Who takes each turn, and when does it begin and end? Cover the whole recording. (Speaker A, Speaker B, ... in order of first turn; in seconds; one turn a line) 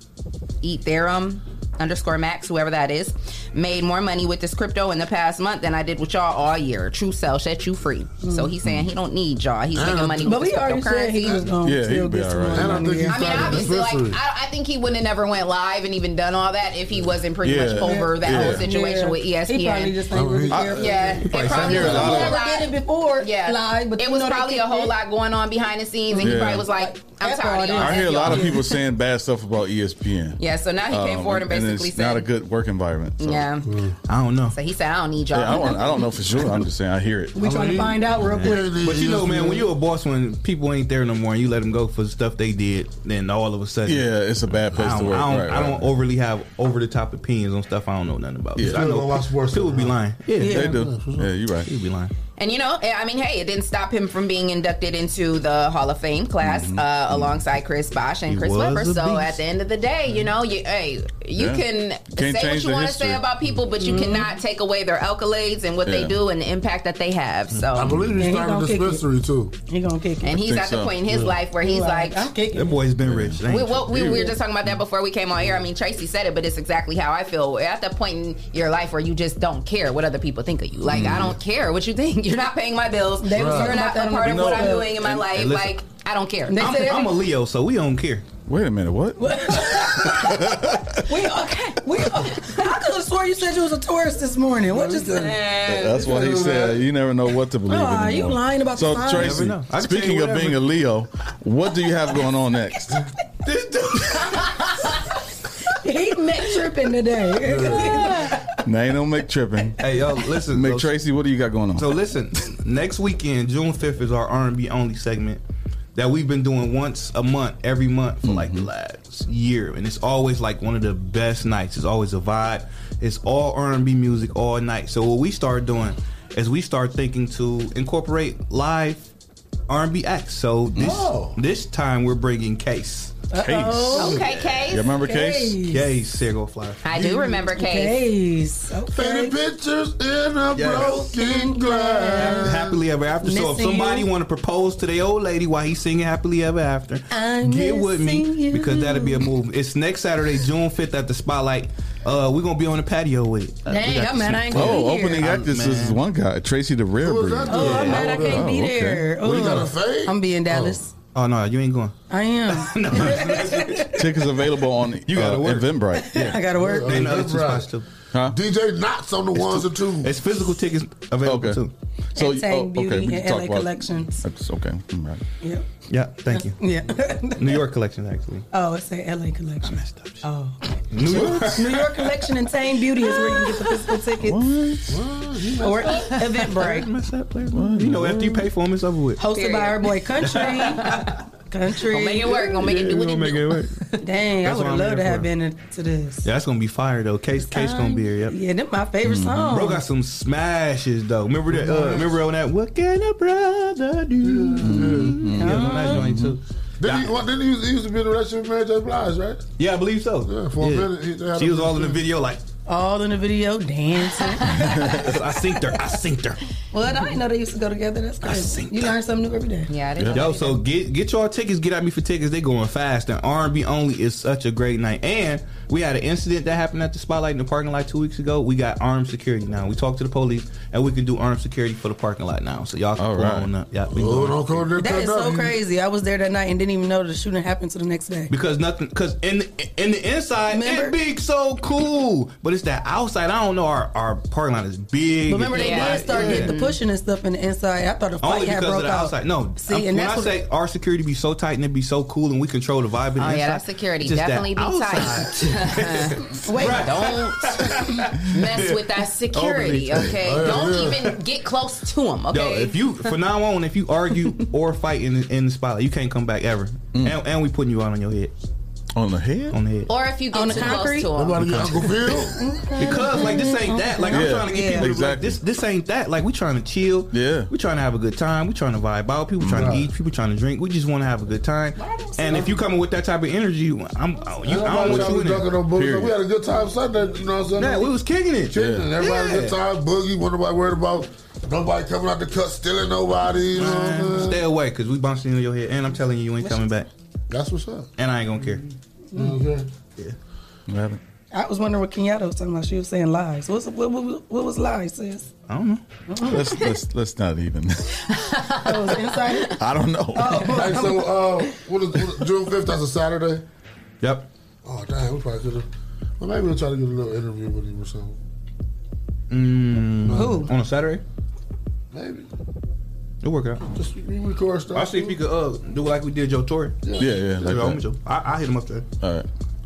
Speaker A: 0.6-11.5
Speaker B: 8.2-8.5
Speaker C: 9.7-10.5
Speaker B: 10.3-13.6
Speaker D: 11.6-13.0
Speaker C: 12.5-14.2
Speaker A: 13.1-20.0
Speaker D: 17.4-18.6
Speaker B: 17.8-24.9
Speaker C: 20.1-21.2
Speaker D: 20.5-22.4
Speaker A: 20.7-28.7
Speaker E: 21.3-22.3
Speaker B: 26.1-28.7
Speaker D: 26.2-26.7
Speaker D: 27.8-33.5
Speaker A: 30.4-32.3
Speaker A: 33.2-33.7
Speaker C: 33.7-33.9
Speaker E: 34.1-34.5
Speaker A: 34.5-36.2
Speaker D: 35.3-37.4
Speaker B: 37.4-38.8
Speaker C: 37.4-39.7
Speaker E: 38.3-44.1
Speaker D: 43.9-46.0
Speaker E: 44.6-50.7
Speaker D: 48.6-48.9
Speaker C: 48.6-50.0
Speaker B: 50.4-50.8
Speaker D: 50.4-51.7
Speaker C: 50.6-51.3
Speaker E: 51.7-52.1
Speaker A: 52.4-68.0
Speaker D: 56.4-57.4
Speaker E: 58.3-59.4
Speaker D: 61.4-63.2
Speaker B: 63.8-64.3
Speaker D: 65.8-66.2
Speaker E: 67.5-68.1
Speaker C: 67.7-69.5
Speaker B: 68.2-69.0
Speaker B: 69.7-70.4
Speaker A: 70.2-72.3
Speaker D: 70.3-71.0
Speaker B: 71.6-72.8
Speaker E: 72.5-74.3
Speaker D: 73.0-73.5
Speaker A: 73.5-87.0
Speaker D: 80.9-81.4
Speaker B: 83.2-85.0
Speaker C: 83.4-83.8
Speaker E: 84.3-85.8
Speaker B: 86.5-87.0
Speaker E: 86.6-88.3
Speaker D: 88.5-91.0
Speaker B: 89.2-95.3
Speaker C: 94.7-95.4
Speaker A: 95.2-96.0
Speaker D: 95.7-103.0
Speaker C: 95.9-96.8
Speaker B: 97.7-99.5
Speaker E: 99.2-100.7
Speaker E: 103.5-104.7
Speaker B: 105.8-108.5
Speaker C: 107.4-108.0
Speaker D: 108.7-109.8
Speaker E: 109.8-111.0
Speaker D: 110.3-111.9
Speaker E: 111.8-115.4
Speaker E: 116.0-129.1
Speaker D: 118.2-118.7
Speaker E: 129.7-133.2
Speaker D: 130.8-131.1
Speaker C: 130.8-131.4
Speaker B: 133.3-134.3
Speaker D: 133.4-135.7
Speaker A: 133.9-134.9
Speaker B: 134.9-135.9
Speaker E: 135.7-137.3
Speaker A: 136.8-138.0
Speaker B: 137.3-139.4
Speaker C: 138.9-142.8
Speaker E: 140.6-141.0
Speaker B: 140.8-142.6
Speaker E: 142.2-156.0
Speaker B: 143.2-144.1
Speaker B: 147.1-149.3
Speaker B: 153.7-155.3
Speaker D: 154.5-159.2
Speaker C: 157.0-158.5
Speaker B: 157.5-160.9
Speaker E: 157.5-158.2
Speaker C: 159.2-160.8
Speaker E: 161.2-162.0
Speaker B: 162.1-163.9
Speaker E: 162.5-163.9
Speaker D: 163.9-166.4
Speaker E: 165.1-165.8
Speaker B: 165.9-167.1
Speaker C: 166.6-167.7
Speaker E: 166.8-167.9
Speaker C: 168.3-170.1
Speaker E: 169.4-171.7
Speaker D: 171.2-171.6
Speaker D: 172.2-175.2
Speaker B: 172.2-174.2
Speaker E: 175.9-176.6
Speaker B: 176.3-177.6
Speaker E: 177.4-178.4
Speaker B: 178.5-184.4
Speaker E: 179.6-180.3
Speaker E: 180.9-182.3
Speaker D: 181.1-181.8
Speaker E: 183.3-183.6
Speaker D: 184.2-185.0
Speaker C: 184.9-186.1
Speaker B: 185.6-186.9
Speaker E: 185.9-189.2
Speaker D: 187.5-188.5
Speaker B: 189.2-191.0
Speaker A: 189.3-191.2
Speaker E: 190.3-191.0
Speaker B: 191.5-192.5
Speaker A: 191.8-193.7
Speaker E: 192.4-193.8
Speaker B: 194.0-196.3
Speaker E: 194.4-195.3
Speaker E: 196.2-198.4
Speaker B: 197.4-199.8
Speaker D: 199.0-199.6
Speaker E: 199.5-207.2
Speaker C: 201.7-202.0
Speaker C: 204.2-205.2
Speaker D: 204.6-206.4
Speaker B: 205.4-206.1
Speaker C: 206.8-209.5
Speaker E: 209.6-212.4
Speaker C: 210.2-212.0
Speaker B: 212.7-215.1
Speaker A: 214.3-214.5
Speaker D: 214.7-215.1
Speaker E: 215.0-216.4
Speaker B: 216.7-219.7
Speaker E: 218.2-218.9
Speaker A: 219.7-220.6
Speaker D: 220.0-220.3
Speaker E: 220.1-234.7
Speaker D: 233.0-233.5
Speaker C: 233.9-235.6
Speaker B: 234.8-238.3
Speaker E: 238.3-246.5
Speaker B: 240.5-241.0
Speaker B: 245.3-250.4
Speaker A: 245.5-246.8
Speaker E: 248.2-258.8
Speaker A: 253.2-263.1
Speaker B: 256.5-256.9
Speaker E: 259.3-260.6
Speaker C: 260.1-261.0
Speaker E: 262.3-268.3
Speaker D: 266.9-267.2
Speaker D: 268.9-269.6
Speaker E: 269.5-269.9
Speaker A: 269.9-271.9
Speaker B: 270.3-271.1
Speaker C: 271.1-272.4
Speaker B: 272.0-274.9
Speaker E: 272.8-285.5
Speaker D: 274.1-275.4
Speaker D: 277.1-277.5
Speaker D: 279.4-279.8
Speaker C: 279.5-279.9
Speaker B: 281.9-282.5
Speaker C: 284.4-287.9
Speaker D: 285.7-286.1
Speaker E: 287.6-289.6
Speaker C: 288.5-294.4
Speaker D: 288.5-288.9
Speaker E: 293.5-296.9
Speaker C: 297.3-297.9
Speaker E: 298.0-298.6
Speaker B: 299.1-299.4
Speaker C: 299.1-299.7
Speaker D: 300.7-301.0
Speaker B: 301.3-305.3
Speaker E: 305.5-305.8
Speaker B: 306.1-306.6
Speaker D: 306.2-307.9
Speaker A: 308.3-309.4
Speaker B: 308.6-309.6
Speaker D: 309.6-310.6
Speaker B: 310.1-311.1
Speaker C: 310.5-313.4
Speaker E: 314.0-314.3
Speaker C: 314.6-315.7
Speaker C: 316.2-318.2
Speaker E: 319.3-321.0
Speaker C: 320.0-320.5
Speaker B: 320.1-320.5
Speaker C: 321.9-322.3
Speaker E: 323.2-323.6
Speaker C: 323.7-325.2
Speaker E: 324.7-326.8
Speaker C: 326.8-327.1
Speaker D: 327.0-327.9
Speaker E: 327.3-328.9
Speaker D: 329.0-329.3